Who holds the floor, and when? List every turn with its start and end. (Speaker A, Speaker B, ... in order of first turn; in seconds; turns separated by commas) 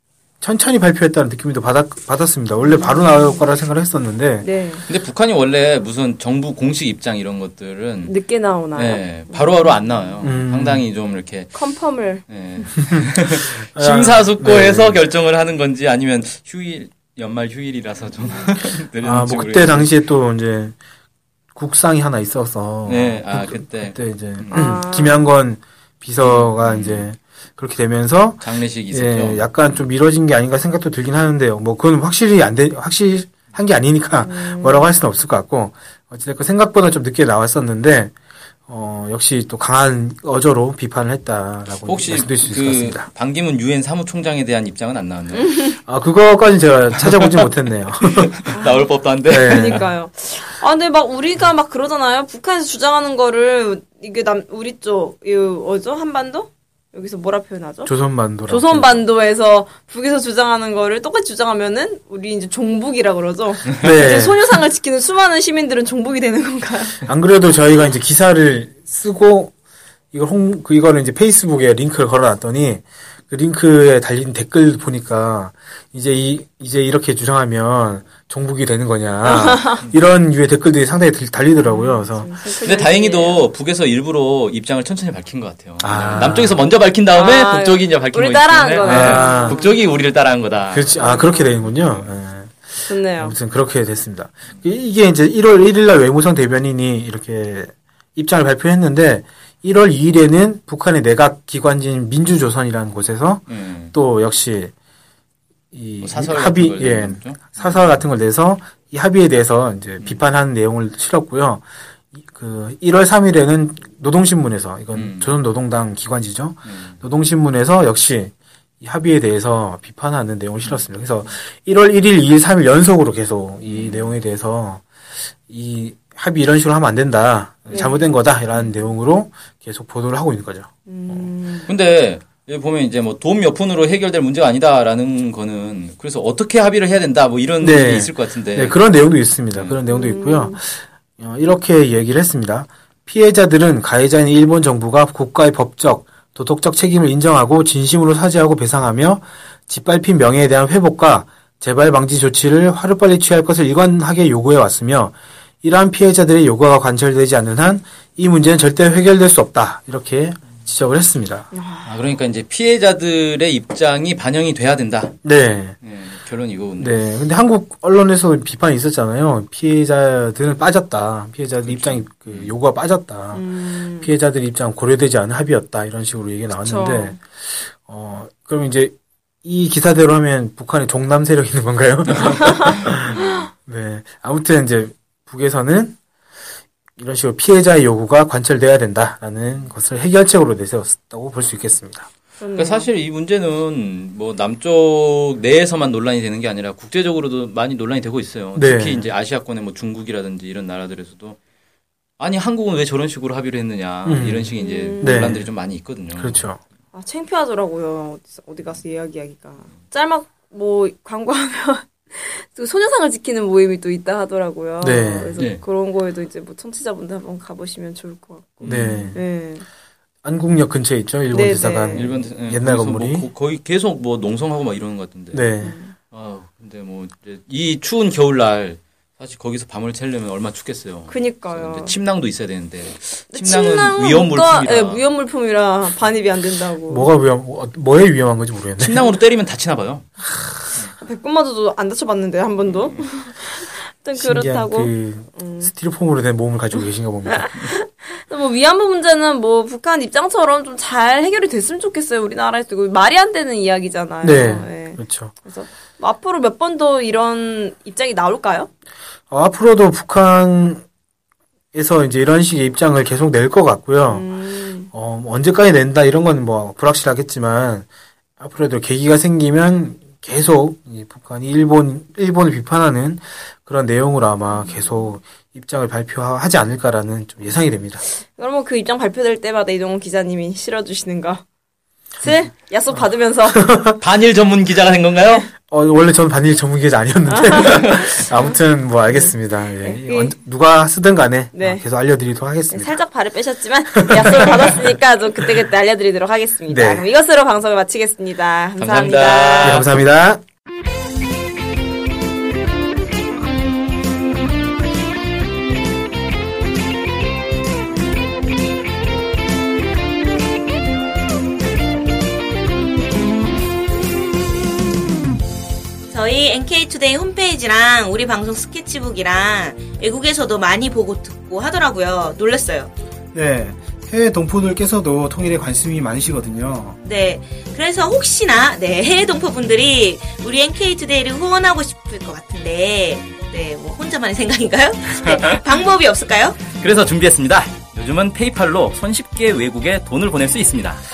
Speaker A: 0.4-4.5, Speaker B: 2.6-3.5, Speaker B: 4.4-4.8, Speaker C: 4.8-8.2, Speaker B: 8.0-9.7, Speaker C: 8.7-11.6, Speaker A: 10.2-10.8, Speaker B: 11.5-12.3, Speaker C: 12.3-19.9, Speaker A: 13.0-15.0, Speaker A: 19.0-20.8, Speaker A: 21.5-38.1, Speaker C: 22.9-24.6, Speaker B: 24.5-25.3, Speaker C: 26.2-27.1, Speaker C: 28.4-29.8, Speaker B: 34.2-34.9, Speaker A: 38.7-43.1, Speaker C: 41.8-45.7, Speaker A: 45.9-48.3, Speaker C: 48.0-49.8, Speaker B: 48.5-57.9, Speaker A: 49.3-49.9, Speaker A: 57.9-59.0, Speaker B: 58.5-67.0, Speaker A: 63.8-64.5, Speaker A: 67.0-69.5, Speaker A: 70.1-82.3, Speaker B: 79.2-79.8, Speaker B: 81.6-83.5, Speaker C: 82.5-91.4, Speaker A: 85.8-86.6, Speaker B: 87.1-89.7, Speaker A: 88.8-89.6, Speaker A: 90.7-104.7, Speaker B: 91.0-91.3, Speaker B: 92.8-93.4, Speaker C: 103.5-103.9, Speaker A: 105.7-124.8, Speaker C: 106.0-108.0, Speaker C: 114.9-115.4, Speaker C: 116.7-116.9, Speaker C: 123.6-124.2, Speaker A: 125.5-131.3, Speaker B: 127.7-128.1, Speaker B: 130.8-131.7, Speaker C: 131.7-138.8, Speaker A: 137.6-161.5, Speaker C: 139.5-139.8, Speaker B: 139.9-140.6, Speaker B: 161.5-162.0, Speaker C: 161.8-165.2, Speaker A: 165.2-165.8, Speaker C: 165.8-167.0, Speaker A: 166.8-186.0, Speaker C: 171.7-172.5, Speaker B: 173.3-174.1, Speaker B: 176.5-177.2, Speaker A: 187.0-192.1, Speaker B: 192.4-192.9, Speaker C: 192.5-201.4, Speaker A: 198.5-199.1, Speaker C: 202.2-206.4, Speaker A: 204.1-205.5, Speaker B: 204.6-205.4, Speaker A: 206.2-206.6, Speaker B: 206.9-219.7, Speaker A: 214.8-215.4, Speaker C: 215.3-215.6, Speaker C: 218.6-219.1, Speaker A: 218.6-219.2, Speaker A: 220.2-223.3, Speaker B: 221.3-222.1, Speaker C: 221.9-225.5, Speaker A: 225.3-225.8, Speaker B: 225.6-225.9, Speaker C: 226.1-235.0, Speaker B: 231.1-231.9, Speaker B: 233.3-237.1, Speaker A: 236.9-239.0, Speaker C: 238.8-240.1, Speaker B: 241.0-245.7, Speaker A: 244.1-247.7, Speaker B: 247.3-258.7, Speaker A: 254.2-255.3, Speaker A: 259.3-260.8, Speaker A: 261.7-264.3, Speaker B: 264.1-264.9, Speaker A: 264.9-267.9, Speaker A: 268.4-278.0, Speaker B: 274.5-275.1, Speaker B: 278.2-281.4, Speaker B: 282.2-283.7, Speaker A: 282.9-284.0, Speaker C: 284.0-285.5, Speaker A: 285.7-293.0, Speaker B: 287.3-288.5, Speaker B: 289.1-290.4, Speaker B: 291.5-291.8, Speaker B: 292.7-299.8, Speaker A: 293.9-294.9, Speaker A: 296.7-297.1, Speaker C: 298.8-299.9, Speaker A: 299.6-300.4, Speaker D: 316.1-322.9, Speaker A: 323.3-327.0, Speaker D: 327.0-336.6, Speaker C: 335.1-335.6, Speaker C: 336.7-341.0